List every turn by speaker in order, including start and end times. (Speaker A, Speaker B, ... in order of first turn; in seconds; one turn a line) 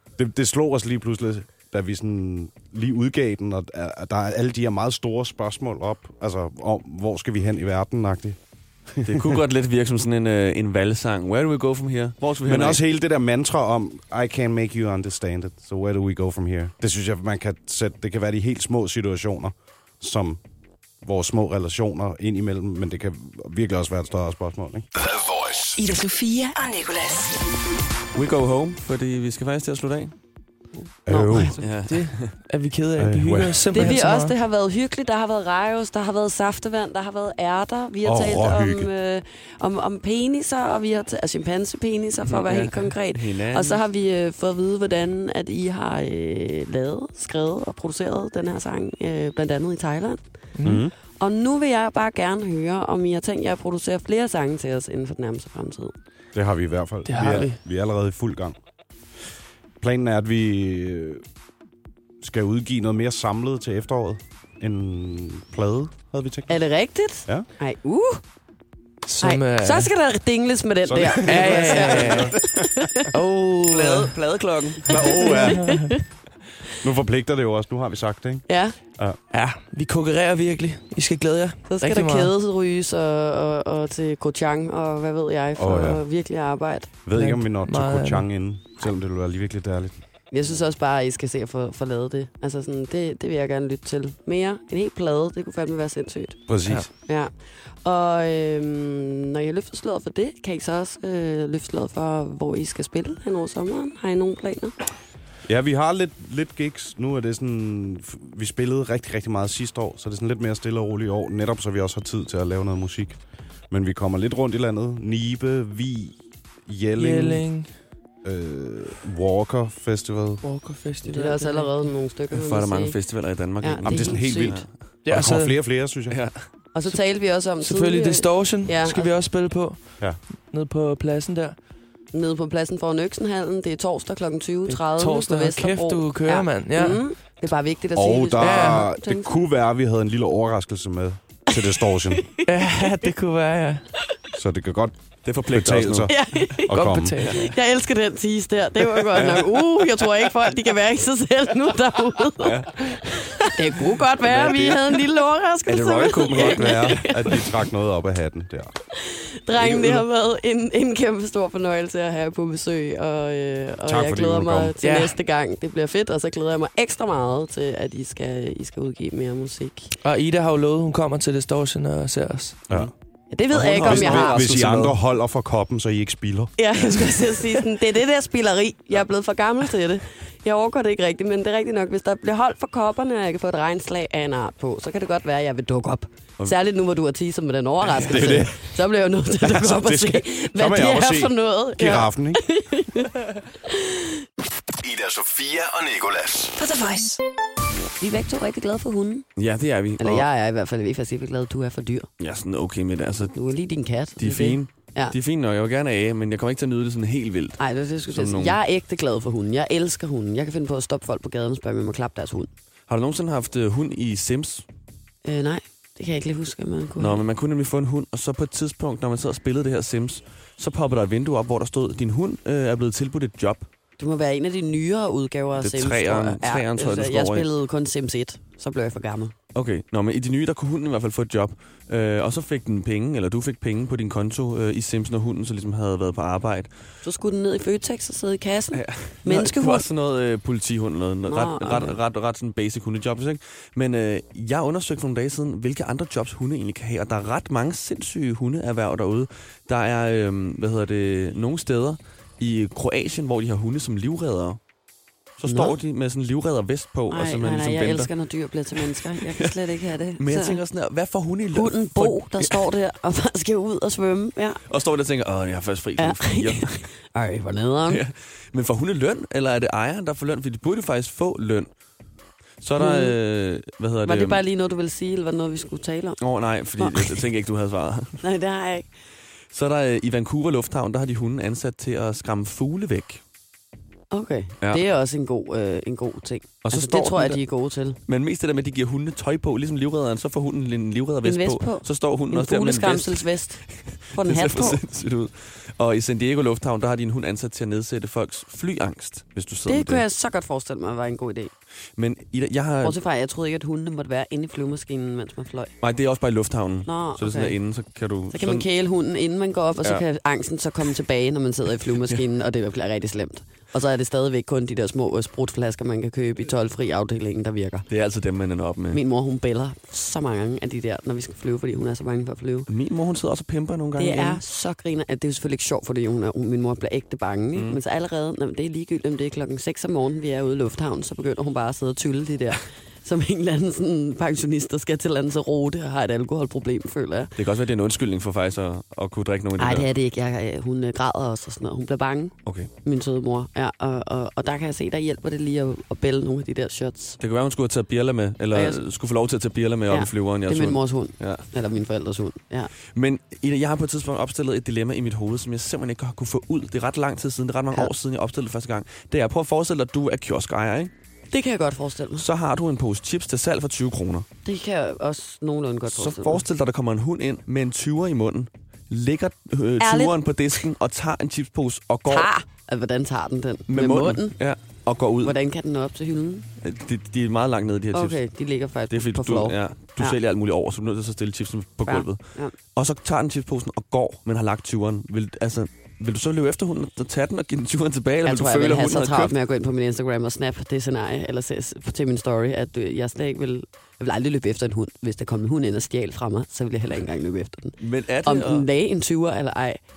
Speaker A: 0.2-8.4
Speaker A: 8.9-9.3
Speaker B: 9.0-12.8
Speaker A: 12.4-20.4
Speaker A: 21.0-24.9
Speaker C: 24.9-25.8
Speaker D: 25.8-27.3
Speaker B: 28.1-30.1
Speaker A: 31.1-31.6
Speaker E: 31.1-31.6
Speaker B: 31.6-32.3
Speaker F: 31.8-34.3
Speaker A: 33.0-33.9
Speaker E: 33.7-50.2
Speaker A: 38.0-38.9
Speaker B: 42.3-43.8
Speaker F: 50.5-50.8
Speaker A: 50.6-50.9
Speaker E: 51.1-55.9
Speaker A: 56.3-58.5
Speaker F: 57.0-57.6
Speaker A: 59.8-61.2
Speaker A: 62.2-66.5
Speaker E: 66.5-68.2
Speaker F: 69.0-69.9
Speaker E: 69.2-73.1
Speaker A: 70.8-72.8
Speaker F: 71.2-72.3
Speaker F: 73.1-74.2
Speaker B: 73.7-75.1
Speaker A: 74.8-75.9
Speaker E: 75.0-76.0
Speaker F: 75.5-75.9
Speaker A: 76.8-79.2
Speaker E: 78.5-78.8
Speaker F: 79.3-82.3
Speaker E: 81.7-86.9
Speaker A: 85.6-86.0
Speaker A: 87.0-90.0
Speaker F: 87.1-88.3
Speaker E: 90.3-96.4
Speaker A: 96.5-96.8
Speaker E: 97.0-104.7
Speaker A: 105.5-113.2
Speaker A: 113.7-117.5
Speaker F: 117.0-117.7
Speaker A: 118.2-120.4
Speaker F: 120.4-121.9
Speaker E: 121.0-123.0
Speaker B: 122.3-124.7
Speaker E: 123.6-124.6
Speaker A: 123.8-126.2
Speaker F: 125.0-125.5
Speaker B: 126.1-126.5
Speaker E: 126.7-129.1
Speaker F: 127.6-131.5
Speaker E: 132.1-139.3
Speaker F: 134.7-137.0
Speaker A: 137.9-142.3
Speaker F: 138.4-138.8
Speaker E: 142.1-142.5
Speaker F: 142.4-143.8
Speaker A: 144.3-147.3
Speaker B: 145.2-146.2
Speaker E: 146.1-146.7
Speaker F: 146.7-147.5
Speaker E: 147.3-152.8
Speaker B: 149.1-149.4
Speaker B: 152.4-153.4
Speaker E: 153.4-157.4
Speaker B: 154.2-155.0
Speaker B: 155.7-157.2
Speaker A: 156.3-158.7
Speaker E: 159.0-169.9
Speaker B: 159.5-160.0
Speaker A: 163.8-164.7
Speaker F: 164.8-165.1
Speaker F: 170.0-172.6
Speaker E: 173.3-174.5
Speaker B: 173.5-174.9
Speaker A: 173.6-176.5
Speaker E: 176.6-194.0
Speaker A: 187.9-188.6
Speaker A: 189.4-192.4
Speaker C: 194.8-196.5
Speaker D: 196.6-197.2
Speaker E: 198.0-199.3
Speaker B: 199.3-200.2
Speaker E: 200.0-202.1
Speaker B: 202.2-203.3
Speaker E: 203.3-205.1
Speaker B: 204.2-208.6
Speaker E: 207.6-212.5
Speaker B: 212.9-214.6
Speaker E: 215.2-217.2
Speaker B: 217.0-223.7
Speaker E: 224.0-229.3
Speaker B: 225.6-227.5
Speaker B: 229.5-236.7
Speaker E: 237.0-239.8
Speaker B: 238.7-254.6
Speaker E: 241.2-242.0
Speaker B: 255.4-258.1
Speaker E: 255.4-255.8
Speaker E: 257.1-260.6
Speaker B: 258.8-259.5
Speaker B: 260.2-262.6
Speaker E: 261.5-264.6
Speaker B: 264.7-266.9
Speaker E: 266.0-268.0
Speaker B: 267.9-271.7
Speaker B: 272.6-274.4
Speaker E: 272.8-273.1
Speaker E: 274.0-276.2
Speaker B: 276.2-278.2
Speaker E: 276.8-277.2
Speaker E: 278.2-278.9
Speaker B: 279.5-283.2
Speaker E: 284.1-288.0
Speaker B: 286.6-287.4
Speaker B: 288.1-300.0
Speaker E: 291.2-294.8
Speaker E: 299.7-301.5
Speaker B: 301.9-303.0
Speaker E: 302.8-305.7
Speaker B: 305.8-308.6
Speaker E: 306.8-307.6
Speaker E: 308.3-317.9
Speaker B: 317.9-319.0
Speaker E: 318.9-322.7
Speaker B: 322.7-324.4
Speaker E: 323.9-337.3
Speaker B: 327.5-327.8
Speaker B: 337.4-339.9
Speaker E: 339.6-347.2
Speaker B: 342.4-342.7
Speaker B: 347.2-351.4
Speaker E: 348.5-348.8
Speaker E: 349.9-352.7
Speaker B: 352.9-360.9
Speaker E: 361.3-362.2
Speaker B: 362.2-364.2
Speaker E: 364.4-366.4
Speaker B: 365.9-372.3
Speaker E: 369.8-370.6
Speaker E: 372.1-374.4
Speaker B: 373.7-375.4
Speaker E: 375.2-376.5
Speaker B: 376.6-378.2
Speaker E: 377.9-380.2
Speaker B: 378.9-382.2
Speaker E: 381.9-382.5
Speaker B: 382.7-389.3
Speaker E: 388.2-399.8
Speaker B: 397.8-398.7